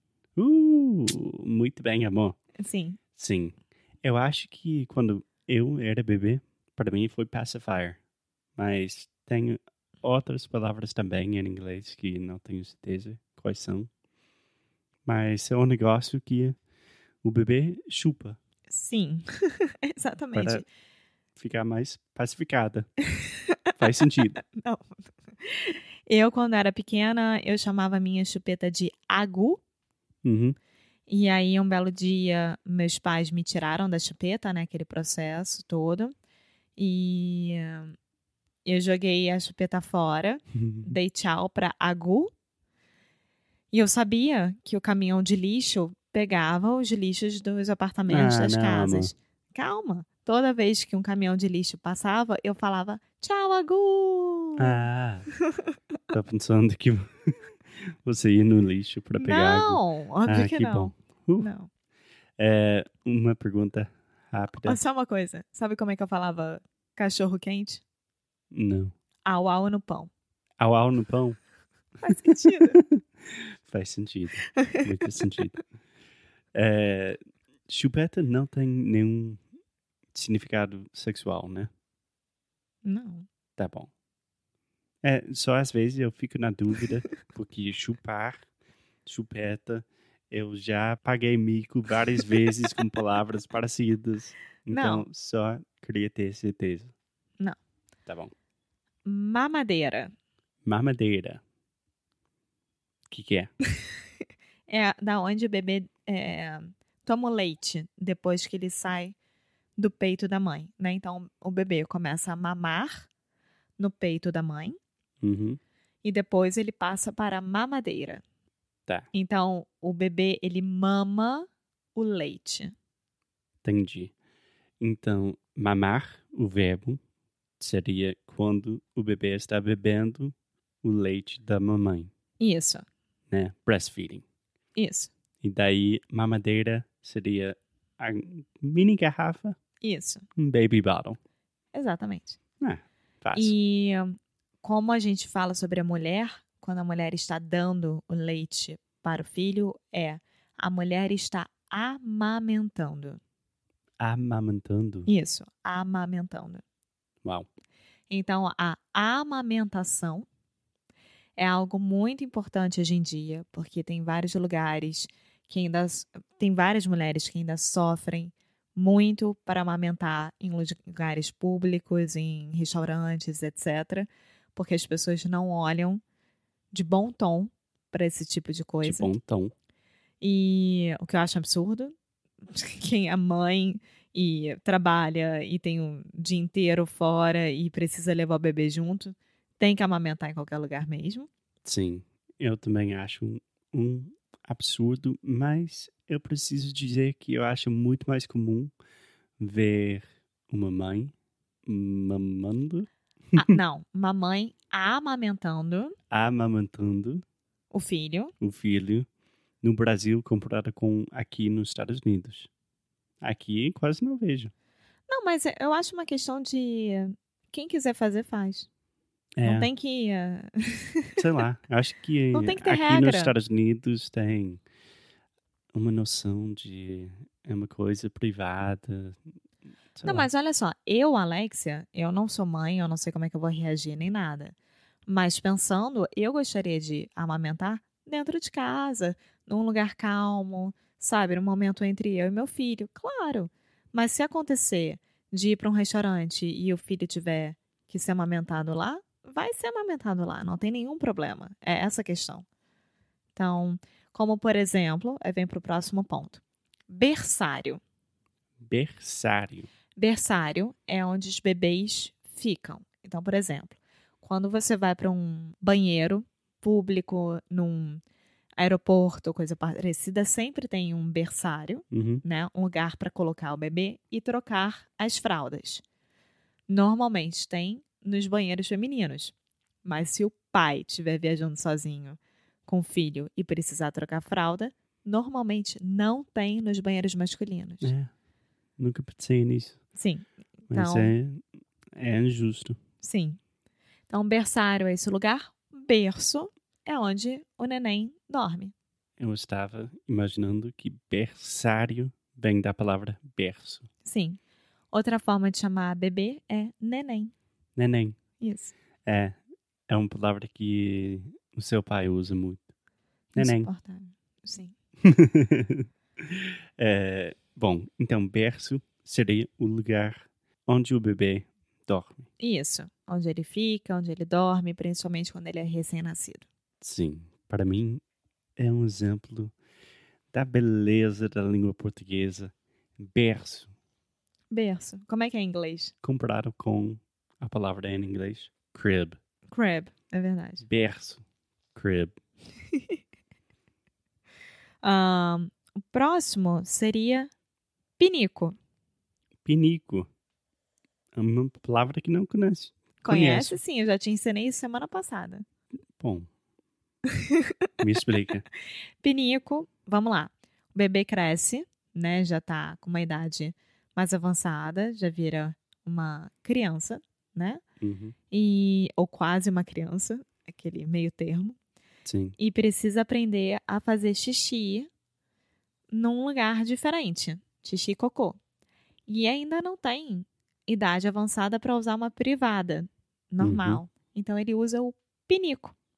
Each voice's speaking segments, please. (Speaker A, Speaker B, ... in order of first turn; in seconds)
Speaker A: 0.3-2.4, 3.2-8.0, 8.6-13.9, 15.1-16.6, 17.2-18.4, 20.3-20.6, 21.4-22.9, 23.8-24.4, 30.2-30.6, 40.5-40.9, 48.1-49.1, 54.6-55.3, 56.1-61.5, 62.4-64.8, 68.5-68.9, 70.6-71.4, 72.7-75.6, 76.5-77.2, 77.7-79.4, 80.1-81.7, 83.6-83.9, 85.0-88.4, 89.0-96.9, 98.1-98.3, 100.6-101.4, 103.1-103.5, 115.2-115.6, 123.6-124.1, 124.8-127.0, 127.6-132.1, 133.3-134.2, 135.4-139.6, 140.3-141.2, 142.6-143.5, 154.0-155.1, 178.8-179.5, 191.6-198.7, 199.4-201.1, 201.7-202.9, 206.1-207.2, 208.4-209.1, 209.6-212.5, 213.2-214.5, 219.4-219.7, 221.2-224.6, 225.7-229.2, 229.9-230.3, 258.7-259.7, 271.9-272.2, 287.8-288.1, 288.8-289.8, 290.7-291.4, 291.9-292.8, 299.2-303.9, 307.8-308.2, 309.1-309.4, 309.9-312.7, 313.3-313.7, 315.0-322.2, 326.8-328.0, 328.6-329.5, 330.3-333.7, 336.0-339.2, 340.6-341.2, 341.7-342.1, 349.4-350.1, 351.1-353.6, 356.0-356.3, 357.8-358.4, 367.8-368.1, 372.0-372.4, 383.4-383.8
Speaker B: 2.6-3.0, 18.7-20.6, 24.5-29.6, 31.1-36.1, 36.8-37.9, 38.6-42.3, 43.7-54.8, 59.2-61.7, 64.6-67.8, 69.2-70.1, 72.0-72.8, 82.8-83.3, 94.7-95.0, 99.0-100.1, 104.7-109.2, 109.8-113.1, 113.8-114.8, 116.0-118.2, 119.1-122.7, 132.4-132.8, 134.8-135.1, 139.8-140.2, 141.7-142.4, 143.3-153.2, 155.1-156.6, 158.1-160.3, 161.3-176.0, 176.7-179.1, 180.2-191.3, 203.3-205.9, 207.7-208.3, 215.1-218.7, 219.4-221.2, 222.3-223.3, 230.0-252.4, 253.3-257.8, 260.0-268.0, 268.6-275.8, 276.7-287.9, 289.9-291.1, 293.0-293.4, 294.1-298.7, 304.0-304.4, 304.9-307.3, 308.4-308.7, 313.3-314.7, 322.4-326.4, 334.5-335.9, 339.5-340.6, 344.8-347.3, 348.0-348.6, 353.0-355.4, 359.0-367.6, 368.3-371.6, 372.4-374.9, 375.9-378.4, 379.1-385.7